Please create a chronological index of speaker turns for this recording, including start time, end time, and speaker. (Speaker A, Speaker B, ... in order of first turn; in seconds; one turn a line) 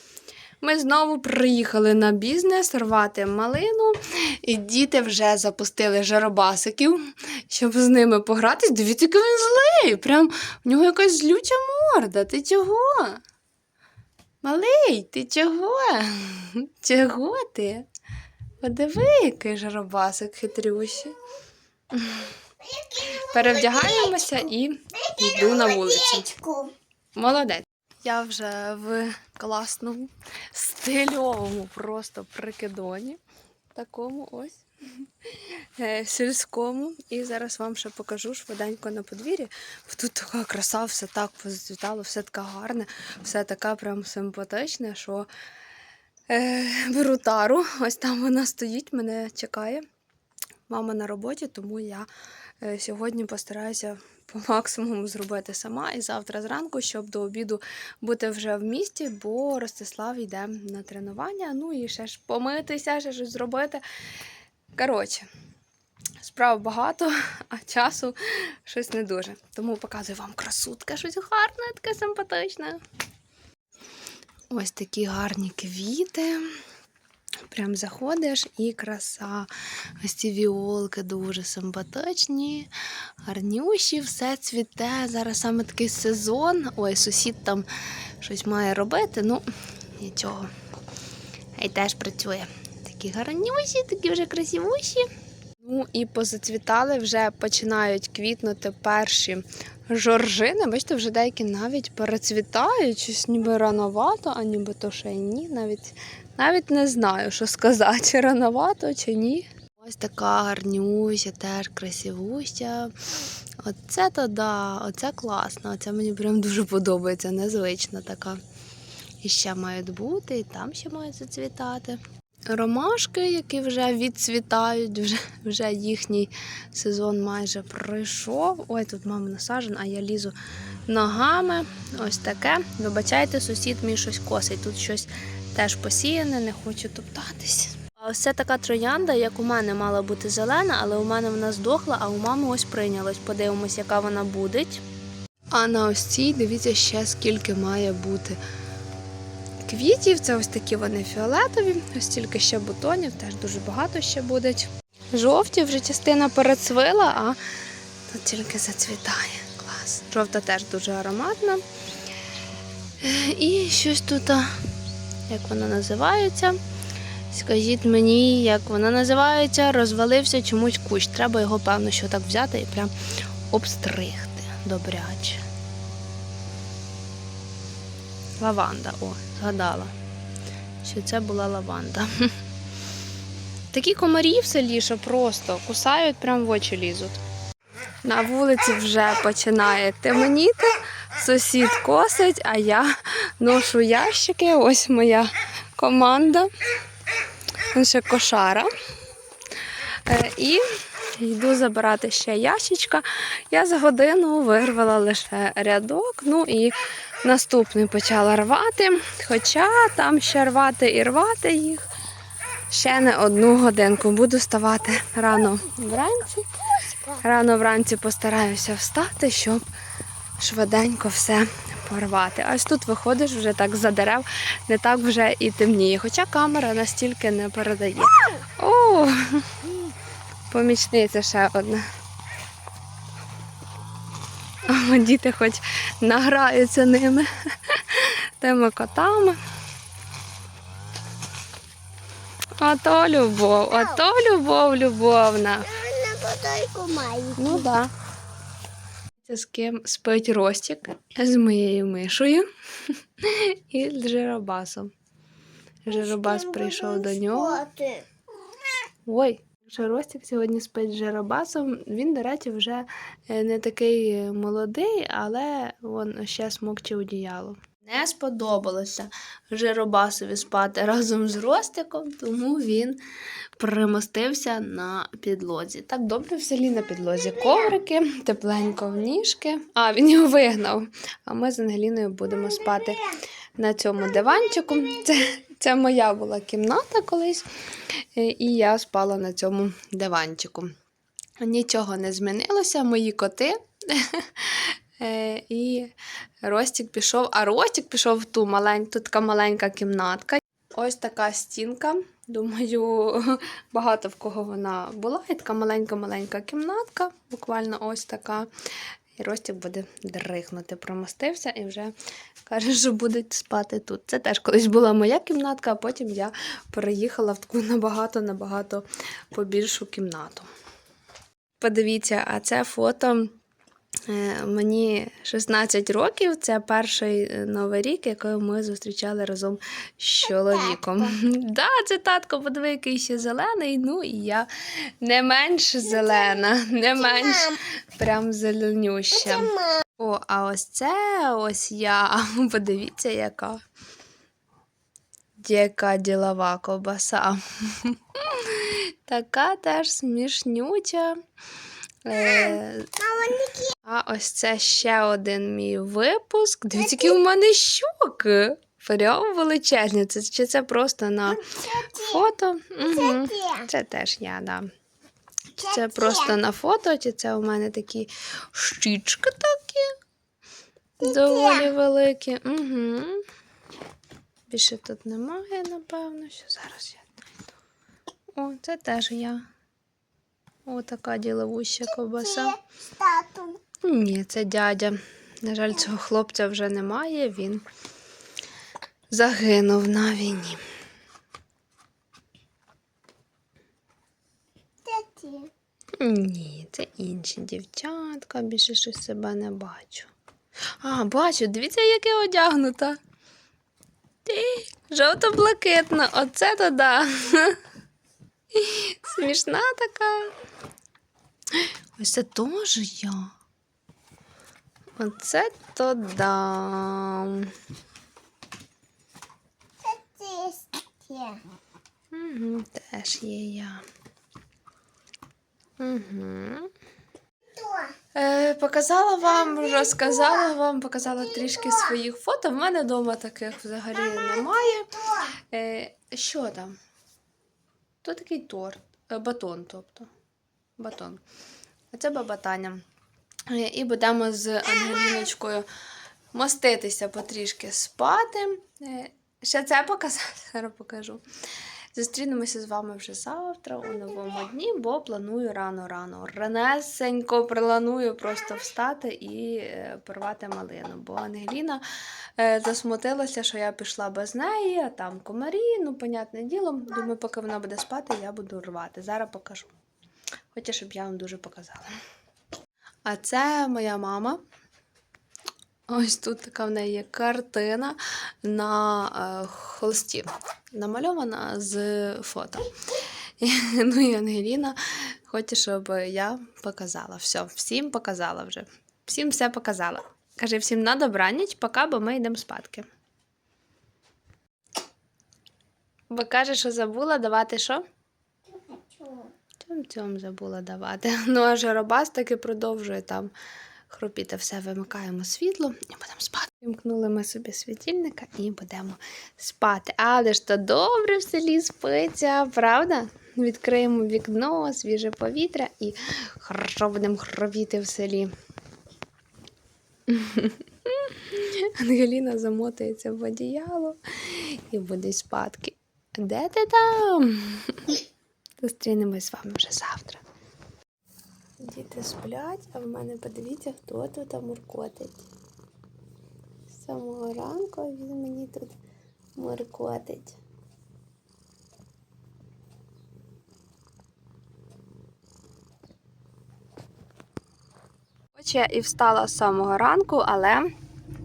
Speaker A: 0.6-13.2
Speaker A: 14.4-17.9
Speaker A: 18.6-21.2
Speaker A: 21.9-22.3
Speaker B: 22.6-24.3
Speaker A: 23.0-26.3
Speaker B: 25.1-26.7
Speaker A: 27.1-33.2
Speaker A: 33.7-34.6
Speaker A: 35.3-45.3
Speaker A: 46.3-49.8
Speaker A: 50.7-52.1
Speaker A: 52.6-63.8
Speaker A: 64.8-65.3
Speaker A: 66.2-72.8
Speaker A: 74.5-76.5
Speaker A: 77.5-79.5
Speaker A: 80.0-82.7
Speaker A: 83.2-87.7
Speaker A: 88.2-89.5
Speaker A: 90.0-90.5
Speaker A: 91.6-95.1
Speaker A: 95.6-112.9
Speaker A: 113.6-118.4
Speaker A: 119.2-130.3
Speaker A: 130.9-144.8
Speaker A: 145.5-148.4
Speaker A: 149.7-157.4
Speaker A: 158.1-161.6
Speaker A: 163.0-164.5
Speaker A: 165.3-166.6
Speaker A: 167.3-172.9
Speaker A: 173.5-175.4
Speaker A: 178.4-179.9
Speaker A: 180.8-182.1
Speaker A: 183.7-187.2
Speaker A: 188.0-196.5
Speaker A: 197.7-198.7
Speaker A: 200.1-200.6
Speaker A: 201.2-211.8
Speaker A: 212.7-216.6
Speaker A: 217.1-219.6
Speaker A: 220.4-229.6
Speaker A: 230.5-231.8
Speaker A: 234.7-239.4
Speaker A: 242.6-245.8
Speaker B: 245.7-247.7
Speaker A: 247.4-247.9
Speaker A: 249.2-254.9
Speaker A: 255.8-257.6
Speaker B: 256.1-258.1
Speaker A: 259.1-273.0
Speaker A: 273.6-287.5
Speaker A: 288.1-290.7
Speaker A: 291.4-295.9
Speaker A: 296.4-308.5
Speaker A: 309.2-311.9
Speaker A: 312.5-320.5
Speaker A: 321.6-323.3
Speaker A: 324.1-334.5
Speaker A: 335.0-343.6
Speaker A: 345.4-351.2
Speaker A: 352.1-353.2
Speaker B: 353.2-353.7
Speaker A: 353.8-364.7
Speaker B: 361.4-362.0
Speaker B: 362.9-363.6
Speaker A: 365.6-369.9
Speaker A: 371.0-373.2
Speaker B: 371.2-371.7
Speaker A: 374.5-377.1
Speaker A: 378.4-379.4
Speaker A: 380.7-382.6
Speaker B: 382.4-383.6
Speaker A: 383.8-387.6
Speaker A: 389.1-390.6
Speaker B: 394.9-395.5
Speaker A: 396.0-400.1
Speaker A: 400.8-403.0
Speaker A: 404.2-407.6
Speaker A: 408.5-410.3
Speaker A: 411.5-413.3
Speaker A: 415.0-417.5
Speaker B: 419.8-421.4
Speaker A: 422.1-423.8
Speaker A: 425.8-426.7
Speaker B: 427.6-427.9
Speaker A: 428.1-436.8
Speaker A: 438.0-440.1
Speaker A: 440.8-441.2
Speaker A: 441.9-442.8
Speaker A: 443.5-445.7
Speaker A: 446.3-451.2
Speaker A: 451.9-461.8
Speaker A: 462.4-469.7
Speaker A: 470.5-471.9
Speaker A: 473.1-474.4
Speaker A: 475.9-482.7
Speaker A: 483.4-492.9
Speaker A: 496.1-497.9
Speaker B: 498.7-499.3
Speaker A: 499.6-503.3
Speaker A: 503.9-518.3
Speaker A: 520.1-528.0
Speaker A: 528.6-530.2
Speaker A: 531.6-535.3
Speaker A: 536.7-538.8
Speaker A: 539.4-540.4
Speaker A: 548.4-550.7